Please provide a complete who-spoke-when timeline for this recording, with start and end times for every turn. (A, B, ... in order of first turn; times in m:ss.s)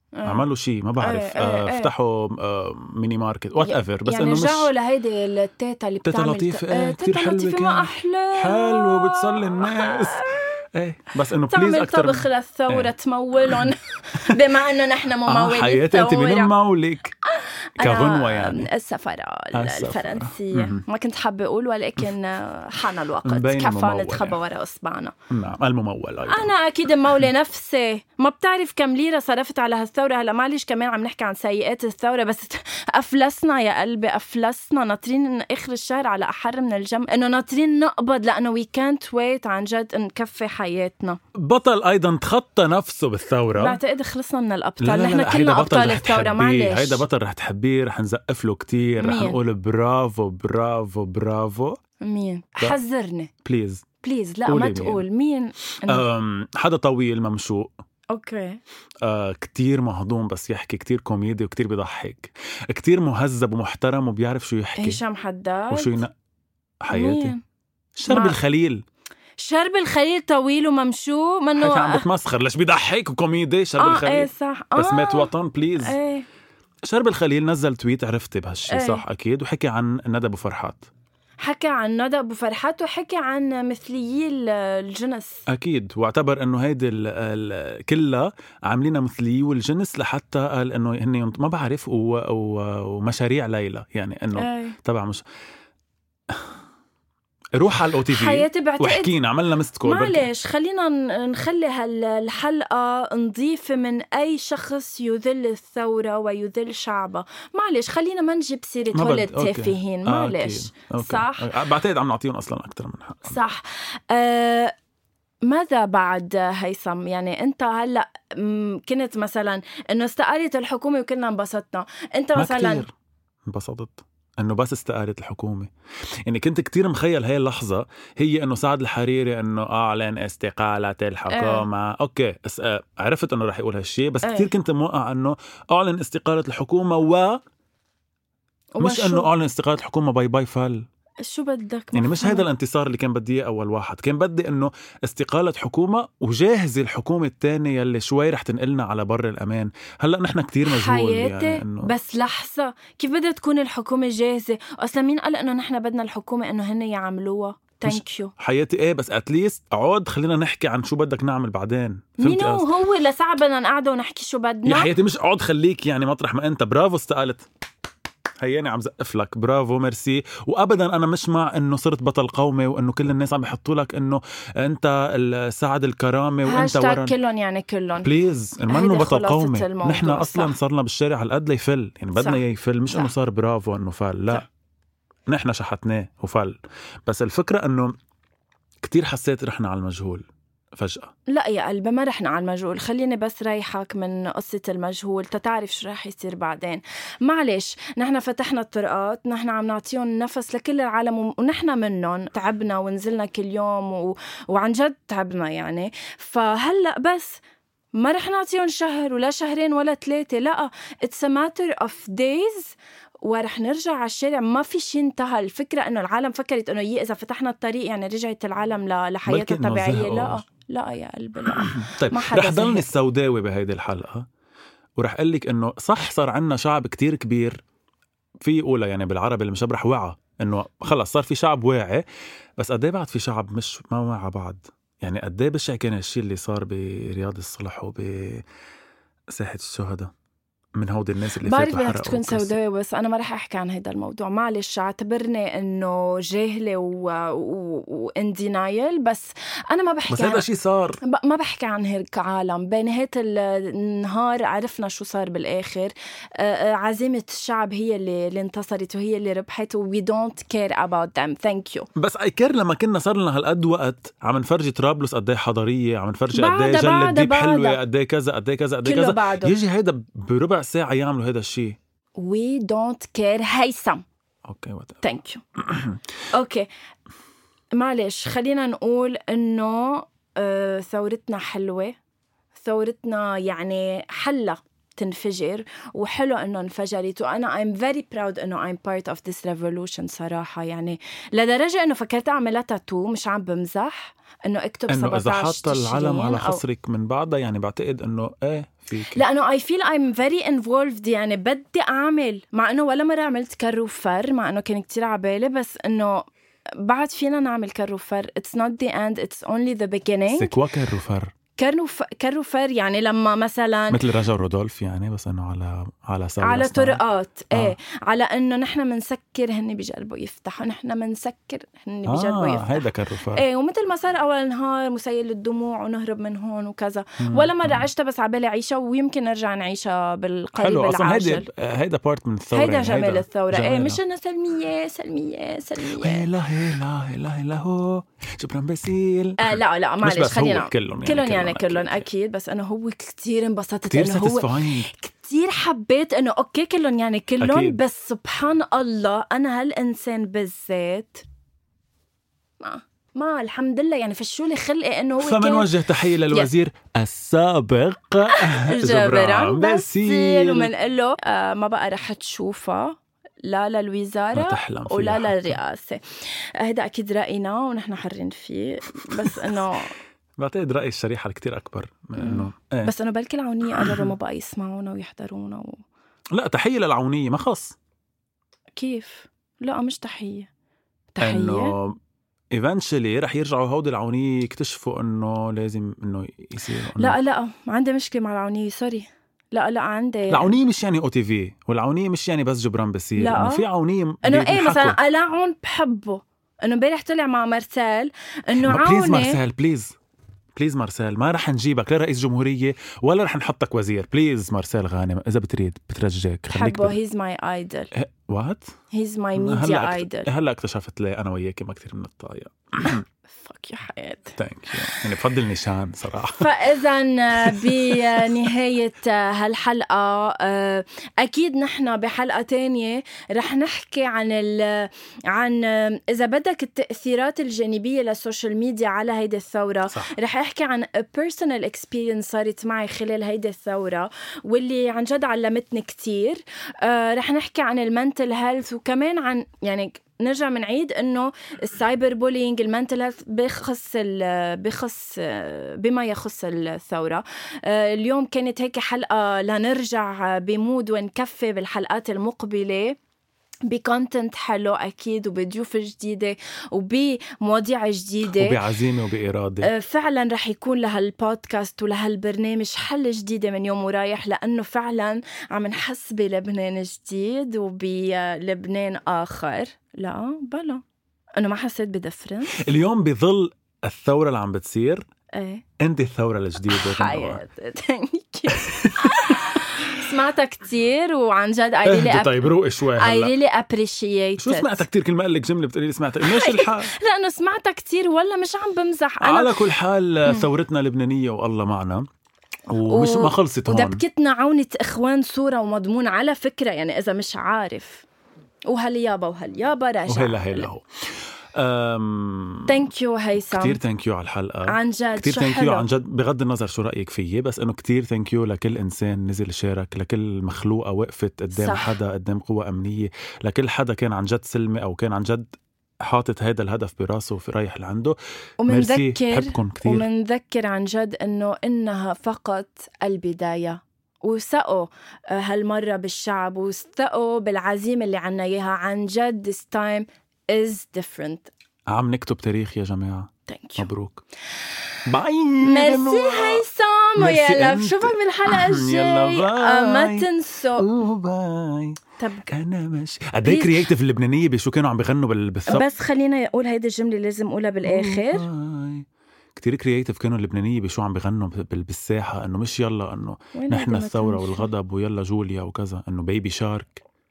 0:00.1-0:00.4 A
0:00.2-0:04.7 B
0:01.0-0:01.9 A
0:03.6-0:10.6 A
0:06.0-0:12.9 B
0:11.5-0:16.5 A
0:13.5-0:14.4 B
0:15.2-0:17.1 B
0:17.3-0:25.1 A
0:17.8-0:18.7 B
0:19.5-0:20.8 B
0:23.2-0:24.4 B
0:25.3-0:26.5 B
0:26.3-0:41.2 A
0:41.3-0:43.8 B
0:43.5-0:47.0 A
0:44.8-0:51.8 B
0:49.0-0:49.4 A
0:52.0-0:53.3 A
0:53.4-0:53.8 B
0:54.0-0:56.0 A
0:54.4-0:55.0 B
0:55.9-0:57.7 B
0:58.1-0:58.6 A
0:59.0-1:05.0 B
1:04.8-1:06.0 A
1:05.7-1:06.1 B
1:06.8-1:07.3 B
1:06.9-1:07.4 A
1:08.0-1:08.8 B
1:08.1-1:08.4 A
1:09.4-1:12.0 A
1:11.6-1:16.0 B
1:13.8-1:16.2 A
1:16.8-1:20.9 B
1:18.7-1:19.0 A
1:21.4-1:25.4 A
1:25.5-1:35.2 B
1:34.3-1:34.8 A
1:37.5-1:40.2 B
1:38.1-1:39.1 A
1:39.8-1:51.5 A
1:48.9-1:53.4 B
1:53.3-1:54.7 A
1:55.4-2:02.8 A
2:02.3-2:02.9 B
2:03.4-2:05.7 B
2:06.2-2:17.4 B
2:11.3-2:11.6 A
2:14.2-2:14.5 A
2:18.8-2:19.3 A
2:18.8-2:20.8 B
2:21.2-2:22.4 A
2:21.9-2:31.9 B
2:30.6-2:38.3 A
2:37.8-2:42.7 B
2:42.2-2:44.9 A
2:44.6-2:47.4 B
2:48.4-2:57.1 B
2:56.4-2:58.1 A
2:58.0-3:04.4 B
2:58.7-3:00.5 A
3:02.1-3:03.1 A
3:05.3-3:07.9 B
3:08.8-3:11.1 B
3:11.3-3:27.4 A
3:28.0-3:42.9 A
3:39.2-3:40.4 B
3:41.4-3:44.3 B
3:45.0-3:47.6 B
3:48.4-3:52.0 B
3:52.6-3:58.4 B
3:59.3-4:00.1 B
4:00.8-4:02.6 B
4:01.4-4:10.4 A
4:10.1-4:11.0 B
4:11.0-4:21.9 A
4:22.0-4:31.8 B
4:26.3-4:27.8 A
4:28.8-4:29.6 A
4:32.2-4:34.0 A
4:34.4-4:35.0 B
4:35.0-4:35.4 A
4:35.6-4:36.0 B
4:36.3-4:36.7 A
4:37.7-4:42.0 A
4:42.6-4:56.6 A
4:54.9-4:59.2 B
4:59.1-5:06.3 A
5:06.8-5:10.5 A
5:10.3-5:11.3 B
5:11.6-5:14.0 A
5:13.9-5:17.0 B
5:16.4-5:31.5 A
5:22.1-5:23.4 B
5:27.2-5:27.8 B
5:30.6-5:34.0 B
5:32.5-5:36.3 A
5:36.0-5:42.0 B
5:39.4-5:51.2 A
5:43.9-5:44.9 B
5:47.4-5:47.8 B
5:52.6-5:55.7 A
5:55.2-6:00.7 B
5:56.2-5:56.5 A
5:58.3-6:06.0 A
6:04.3-6:05.6 B
6:06.6-6:09.9 A
6:09.1-6:09.6 B
6:10.4-6:12.9 B
6:12.2-6:15.8 A
6:13.7-6:14.1 B
6:16.3-6:17.8 B
6:18.8-6:20.5 A
6:21.1-6:21.8 A
6:21.2-6:22.0 B
6:22.5-6:27.2 B
6:27.0-6:30.5 A
6:30.3-6:35.0 B
6:33.2-6:33.6 A
6:34.2-6:39.4 A
6:38.6-6:39.9 B
6:40.6-6:47.0 B
6:46.5-6:47.9 A
6:47.9-6:48.7 B
6:48.9-6:50.3 A
6:49.4-6:53.0 B
6:53.3-6:55.1 A
6:54.4-6:56.5 B
6:56.3-7:33.0 A
6:57.4-6:58.5 B
7:33.7-7:38.6 A
7:38.2-7:39.7 B
7:39.6-7:50.8 A
7:51.4-7:52.6 A
7:52.5-7:55.0 B
7:55.3-7:55.6 A
7:55.8-7:57.4 B
7:56.7-8:04.8 A
7:58.5-7:59.9 B
8:01.8-8:03.3 B
8:04.4-8:06.9 B
8:06.2-8:09.6 A
8:09.2-8:12.1 B
8:12.7-8:14.0 B
8:12.8-8:18.0 A
8:18.7-8:20.7 A
8:20.1-8:20.8 B
8:21.5-8:22.9 B
8:22.7-8:23.8 A
8:23.5-8:40.1 B
8:24.6-8:25.8 A
8:31.5-8:31.9 A
8:38.6-8:51.5 A
8:51.9-8:54.2 B
8:53.5-8:53.9 A
8:55.0-8:56.6 B
8:55.6-9:00.9 A
8:57.2-9:02.0 B
9:02.2-9:02.5 A
9:02.5-9:05.8 B
9:03.4-9:03.8 A
9:05.7-9:08.4 A
9:07.8-9:17.0 B
9:13.5-9:14.7 A